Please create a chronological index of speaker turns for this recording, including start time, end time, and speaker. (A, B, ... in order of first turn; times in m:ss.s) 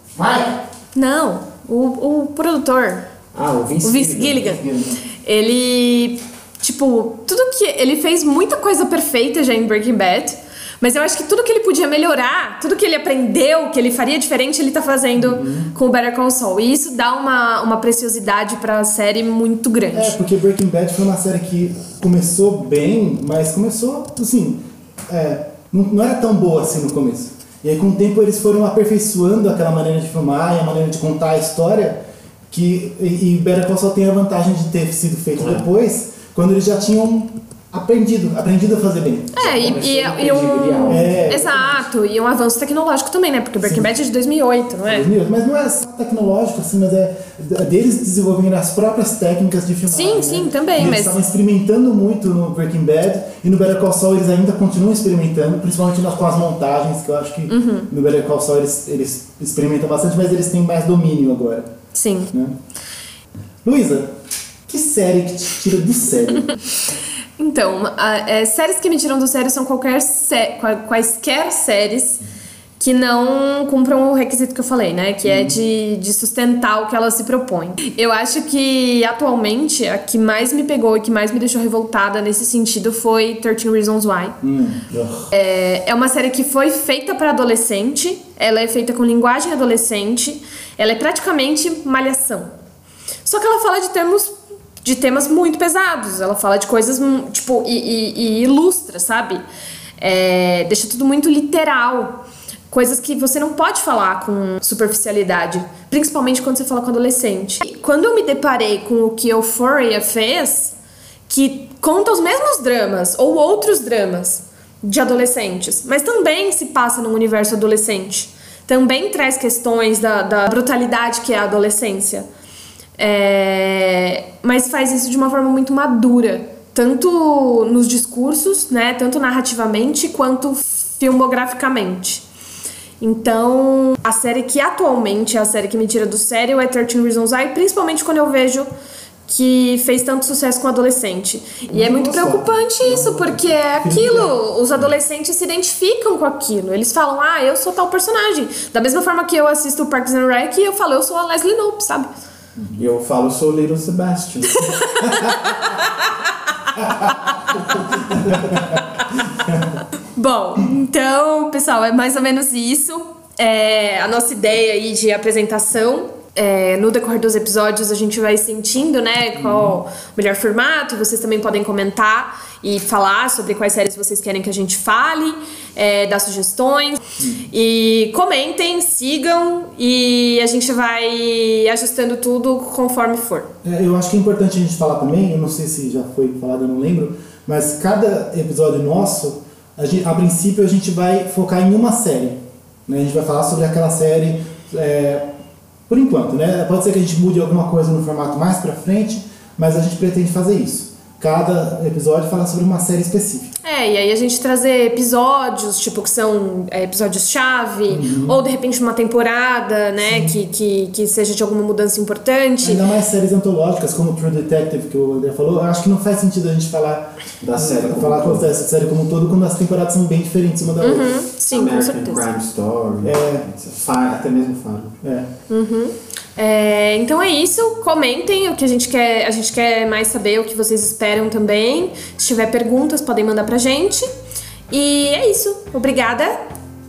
0:00.2-0:00.6 A
0:00.9-0:03.0 B
0:03.3-0:04.6 C
0:03.8-0:20.2 B
0:04.4-0:05.0 A
0:15.1-0:15.7 A
0:19.9-0:39.7 A
0:35.4-0:35.7 C
0:39.4-0:45.1 B
0:39.4-0:41.8 C
0:40.8-0:41.8 A
0:43.6-0:43.9 A
0:44.8-1:01.7 A
0:49.9-0:51.2 B
0:57.5-0:57.9 B
1:01.9-1:02.3 B
1:03.6-1:04.1 A
1:04.7-1:06.5 A
1:07.4-1:12.2 B
1:12.8-1:24.4 B
1:15.2-1:15.6 A
1:24.4-1:24.9 A
1:24.9-1:25.2 C
1:25.3-1:32.5 B
1:33.2-1:39.4 B
1:40.0-1:50.8 B
1:51.3-2:02.3 B
2:03.0-2:12.2 B
2:13.0-2:18.7 B
2:19.2-2:32.1 B
2:21.7-2:24.4 A
2:32.8-2:34.7 C
2:34.5-2:39.0 B
2:38.3-2:38.8 A
2:40.0-3:03.5 B
2:49.4-2:49.8 A
2:57.2-2:57.4 A
3:03.6-3:15.3 A
3:15.9-3:23.5 A
3:23.6-3:32.8 B
3:27.9-3:28.4 A
3:30.0-3:30.4 A
3:32.6-3:41.2 A
3:37.4-3:38.5 C
3:40.8-3:42.3 B
3:41.5-3:45.0 C
3:43.0-3:43.4 A
3:45.0-3:45.3 A
3:45.5-3:54.1 B
3:54.7-3:56.4 B